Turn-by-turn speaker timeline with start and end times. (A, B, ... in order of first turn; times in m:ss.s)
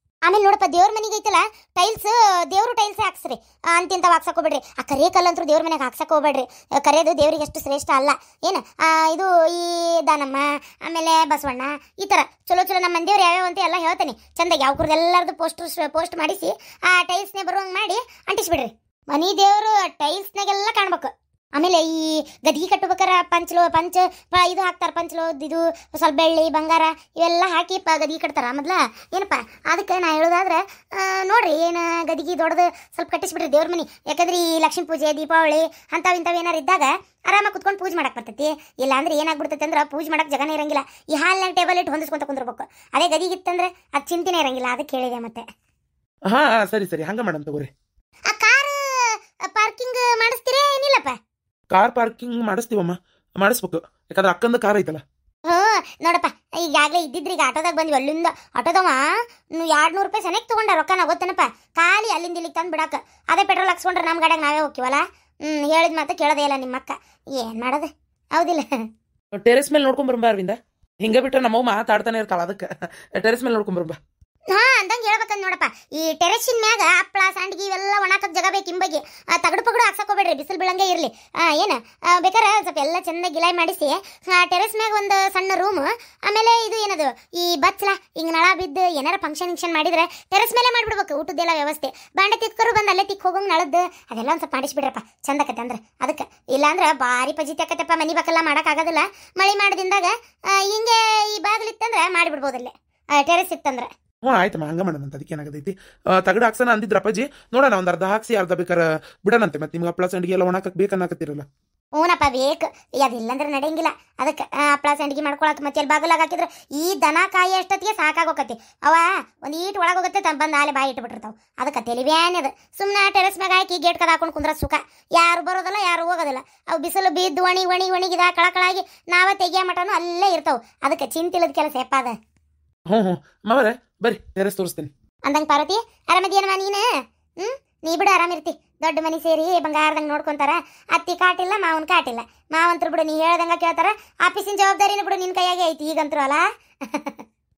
0:00.2-0:45.4 A
0:46.3-0:47.7 B
0:48.3-0:51.2 A
0:51.7-0:55.0 B
0:55.4-0:59.0 A
0:59.5-1:08.7 A
1:09.4-1:14.0 B
1:14.5-1:43.9 A
1:44.2-1:51.4 B
1:52.0-2:12.2 A
2:12.9-2:14.9 B
2:15.3-2:16.8 A
2:17.4-2:27.2 A